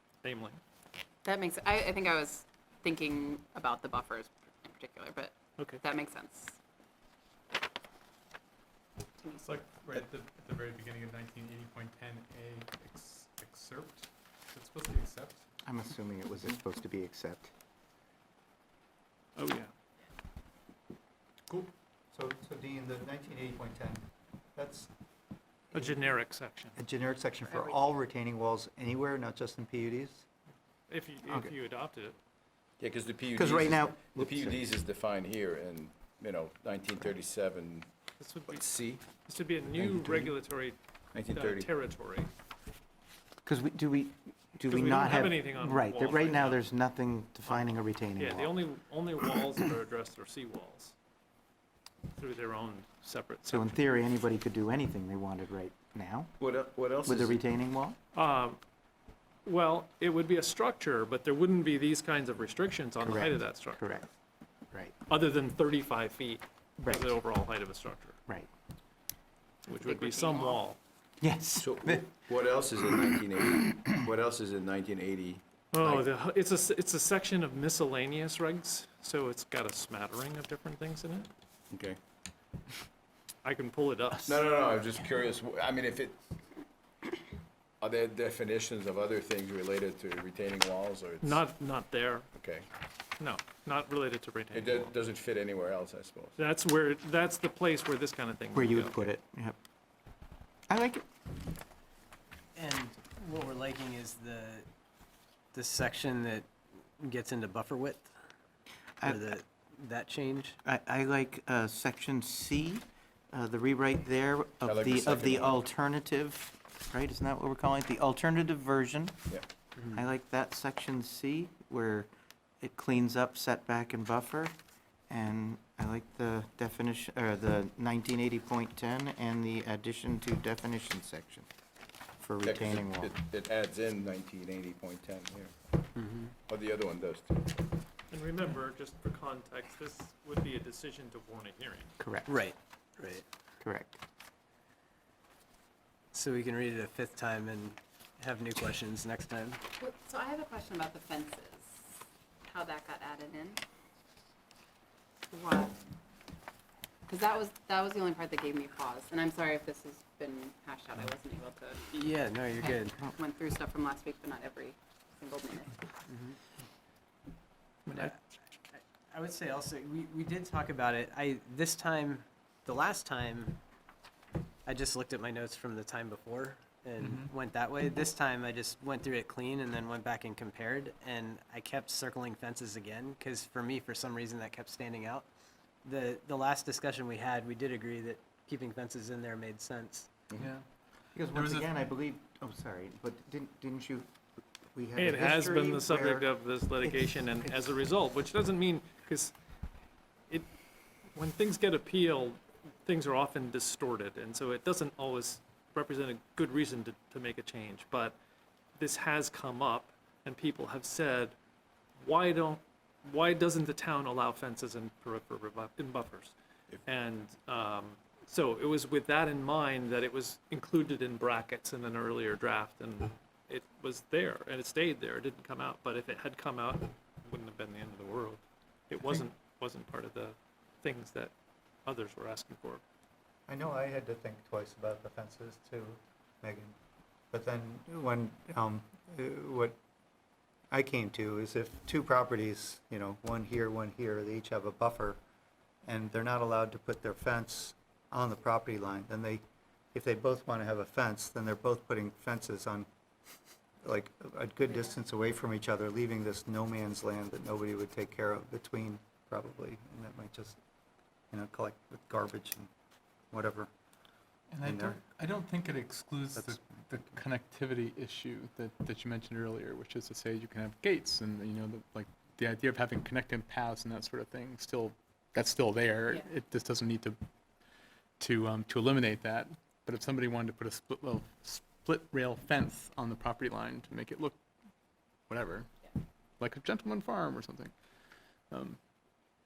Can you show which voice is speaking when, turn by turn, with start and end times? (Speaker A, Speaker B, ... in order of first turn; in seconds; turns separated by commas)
Speaker A: 0.2-0.6, Speaker B: 1.2-6.6, Speaker B: 9.2-9.7, Speaker C: 9.5-15.5, Speaker D: 15.7-17.5, Speaker A: 19.4-19.7, Speaker E: 22.1-24.9, Speaker E: 25.7-26.0, Speaker A: 25.7-26.8, Speaker E: 26.8-30.3, Speaker A: 30.9-32.2, Speaker F: 32.8-37.9, Speaker D: 33.3-34.6, Speaker A: 38.2-38.7, Speaker F: 38.5-39.1, Speaker A: 39.2-40.8, Speaker F: 39.8-40.3, Speaker F: 41.1-41.7, Speaker A: 41.3-42.3, Speaker D: 43.5-48.6, Speaker A: 44.7-46.6, Speaker A: 47.5-51.0, Speaker A: 52.1-53.8, Speaker D: 53.5-56.4, Speaker F: 56.4-57.4, Speaker D: 57.0-58.0, Speaker A: 58.1-58.6, Speaker A: 59.5-63.8, Speaker D: 63.0-64.1, Speaker A: 65.1-68.2, Speaker D: 66.8-67.2, Speaker A: 69.7-70.8, Speaker B: 69.8-70.6, Speaker D: 71.2-72.1, Speaker F: 71.6-76.1, Speaker A: 75.7-81.3, Speaker F: 81.7-82.0, Speaker A: 83.4-84.4, Speaker F: 84.2-86.2, Speaker F: 87.8-91.4, Speaker A: 91.2-92.3, Speaker F: 92.4-92.7, Speaker A: 93.2-94.9, Speaker F: 94.5-96.4, Speaker A: 96.4-99.1, Speaker D: 98.5-99.6, Speaker D: 100.7-101.1, Speaker G: 102.5-104.7, Speaker G: 105.5-108.1, Speaker G: 109.0-110.6, Speaker D: 110.6-119.2, Speaker F: 114.6-115.6, Speaker D: 119.9-122.1, Speaker D: 122.6-124.5, Speaker D: 125.1-131.5, Speaker D: 132.2-133.2, Speaker F: 132.4-135.8, Speaker G: 136.0-136.3, Speaker F: 136.5-137.7, Speaker A: 138.1-141.9, Speaker D: 142.0-142.3, Speaker G: 142.3-143.2, Speaker D: 143.6-144.0, Speaker G: 146.1-149.6, Speaker B: 149.8-151.9, Speaker B: 152.5-153.6, Speaker B: 155.3-155.9, Speaker B: 157.1-165.9, Speaker G: 161.9-163.1, Speaker G: 166.1-166.4, Speaker G: 168.7-173.6, Speaker G: 174.7-185.3, Speaker C: 177.0-177.3, Speaker G: 185.8-190.2, Speaker C: 190.4-190.6, Speaker D: 191.2-194.1, Speaker C: 191.3-191.7, Speaker D: 194.7-196.3, Speaker A: 195.0-199.3, Speaker D: 196.8-197.7, Speaker A: 201.1-208.2, Speaker A: 208.8-211.3, Speaker A: 212.0-216.3, Speaker A: 216.9-231.3, Speaker A: 231.8-232.8, Speaker E: 233.5-236.8, Speaker E: 237.3-239.8, Speaker E: 240.7-245.2, Speaker E: 245.8-249.4, Speaker E: 249.9-252.9, Speaker E: 253.8-260.6, Speaker E: 261.3-262.7, Speaker E: 263.3-263.7, Speaker C: 264.5-277.2, Speaker E: 264.6-265.0, Speaker E: 266.4-266.7, Speaker C: 278.2-284.4, Speaker C: 285.3-285.7, Speaker C: 286.4-287.7, Speaker C: 288.5-288.8